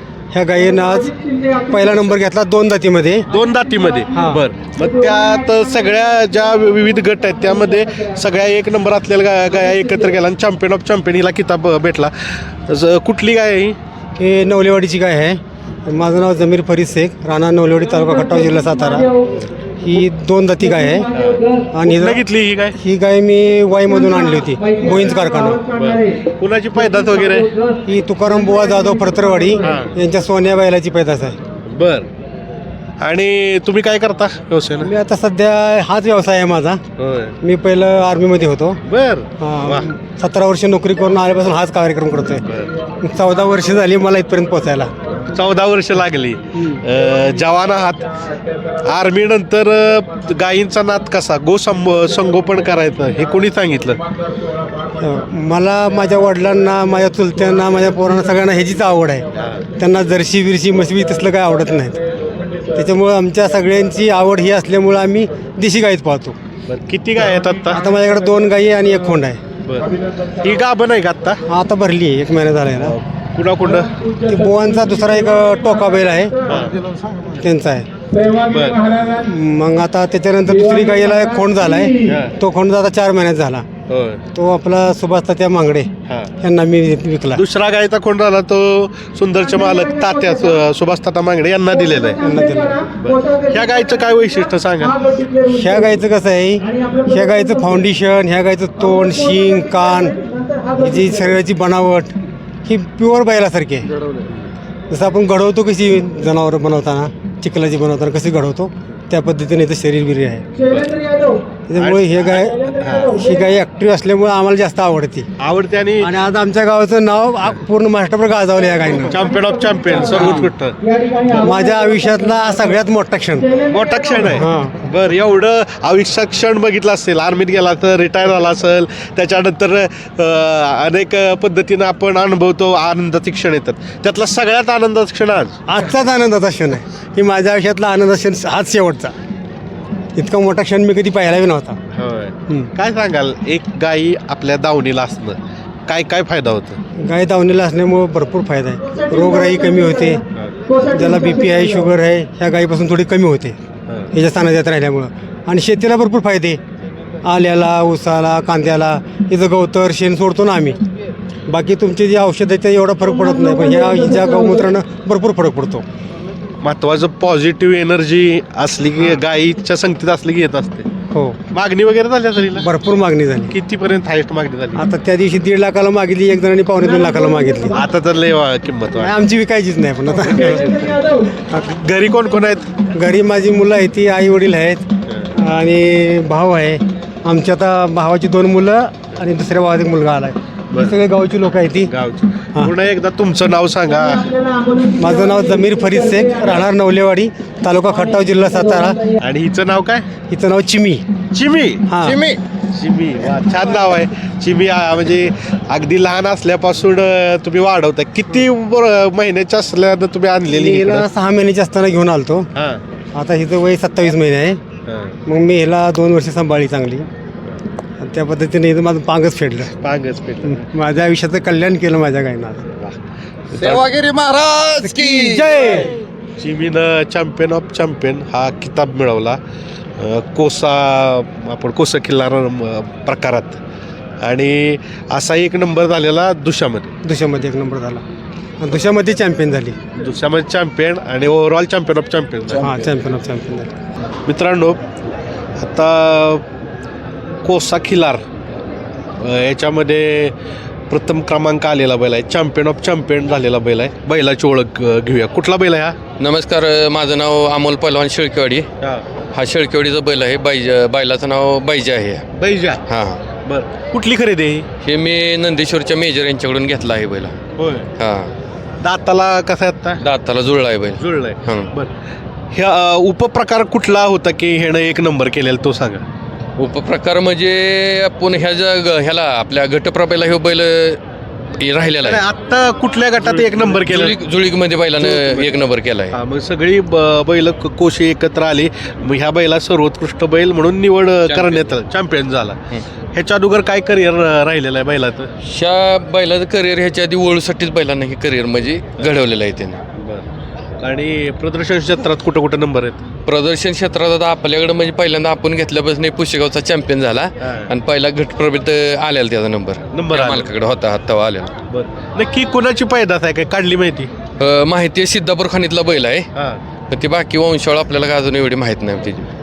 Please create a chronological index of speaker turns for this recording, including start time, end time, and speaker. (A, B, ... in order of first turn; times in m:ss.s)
0:00.3-0:03.3 A
0:03.3-0:13.8 B
0:04.1-0:04.4 A
0:14.2-0:19.1 A
0:19.8-0:21.1 A
0:21.1-0:22.8 B
0:21.7-0:22.2 A
0:22.8-0:25.6 A
0:25.7-0:27.5 B
0:27.8-0:31.4 A
0:29.6-0:29.9 B
0:31.6-0:32.1 B
0:33.0-0:34.9 B
0:34.8-0:36.8 A
0:37.0-0:37.4 B
0:37.4-0:38.8 A
0:38.8-0:39.9 B
0:39.4-0:42.4 A
0:42.4-0:42.7 B
0:43.0-0:44.9 A
0:45.3-0:48.1 B
0:48.8-0:54.0 B
0:55.0-0:59.2 A
0:59.3-0:59.6 B
0:59.8-1:02.0 A
1:02.7-1:06.4 A
1:06.7-1:07.8 B
1:07.7-1:09.4 A
1:09.6-1:11.4 B
1:11.5-1:13.0 A
1:12.8-1:13.9 B
1:14.2-1:16.3 A
1:16.4-1:16.8 B
1:17.4-1:17.9 A
1:18.4-1:18.8 B
1:19.1-1:23.6 A
1:22.0-1:22.3 B
1:23.9-1:24.2 B
1:24.3-1:27.4 A
1:26.1-1:26.3 B
1:27.3-1:32.2 B
1:32.2-1:32.9 A
1:33.0-1:35.0 B
1:35.4-1:40.2 A
1:40.7-1:42.1 A
1:42.6-1:43.9 A
1:44.9-1:50.5 A
1:50.6-1:51.0 B
1:51.7-1:55.3 A
1:51.8-1:53.2 B
1:55.4-1:56.1 B
1:56.0-1:59.2 A
1:59.0-2:00.8 B
2:00.0-2:00.5 A
2:01.3-2:03.6 A
2:03.6-2:15.6 B
2:04.3-2:04.8 A
2:15.7-2:19.1 A
2:20.1-2:21.8 A
2:21.9-2:26.8 B
2:27.0-2:30.2 A
2:30.8-2:33.6 A
2:34.1-2:36.6 A
2:37.2-2:40.8 A
2:41.5-2:45.8 A
2:46.6-2:50.9 B
2:51.1-2:51.4 A
2:51.5-2:52.7 B
2:52.6-2:53.5 A
2:53.5-2:54.8 B
2:54.8-2:57.8 A
2:57.7-2:59.2 B
2:59.0-3:01.4 A
3:01.5-3:02.8 B
3:02.9-3:11.9 A
3:05.1-3:05.3 B
3:10.7-3:11.0 B
3:11.9-3:14.4 B
3:14.9-3:19.0 A
3:19.2-3:20.1 B
3:20.3-3:21.0 A
3:21.3-3:21.9 B
3:21.9-3:22.2 A
3:22.0-3:22.4 C
3:22.7-3:31.1 B
3:30.5-3:32.5 A
3:32.5-3:32.8 B
3:33.1-3:34.6 A
3:34.8-3:35.2 B
3:35.2-3:37.1 A
3:38.0-3:39.7 A
3:39.8-3:40.7 B
3:40.4-3:42.6 A
3:43.5-3:43.9 B
3:43.6-3:45.4 C
3:44.8-3:45.9 A
3:46.4-3:49.4 B
3:50.0-3:53.6 B
3:54.2-3:56.9 B
3:57.0-3:58.0 A
3:58.6-3:59.8 A
4:00.0-4:02.7 B
4:02.6-4:03.7 A
4:04.2-4:04.8 B
4:05.6-4:06.4 B
4:07.4-4:08.2 B
4:09.2-4:10.4 B
4:10.9-4:16.0 B
4:16.2-4:18.7 D
4:19.3-4:22.2 D
4:22.4-4:22.8 B
4:22.9-4:23.2 D
4:23.4-4:24.7 B
4:24.8-4:27.4 D
4:27.6-4:27.9 B
4:28.0-4:28.3 D
4:28.8-4:30.0 B
4:30.0-4:31.7 D
4:31.0-4:31.9 B
4:32.5-4:36.0 B
4:36.6-4:41.0 D
4:41.6-4:42.2 D
4:42.0-4:44.1 B
4:43.6-4:46.1 D
4:45.0-4:45.6 B
4:46.1-4:52.6 B
4:51.3-4:51.7 D
4:53.1-4:55.3 B
4:55.4-4:59.8 D
5:00.0-5:00.2 B
5:00.8-5:03.0 B
5:03.2-5:11.5 D
5:07.4-5:07.7 B
5:09.9-5:10.5 B
5:11.7-5:14.1 B
5:14.4-5:16.3 D
5:16.3-5:16.6 B
5:16.9-5:19.3 D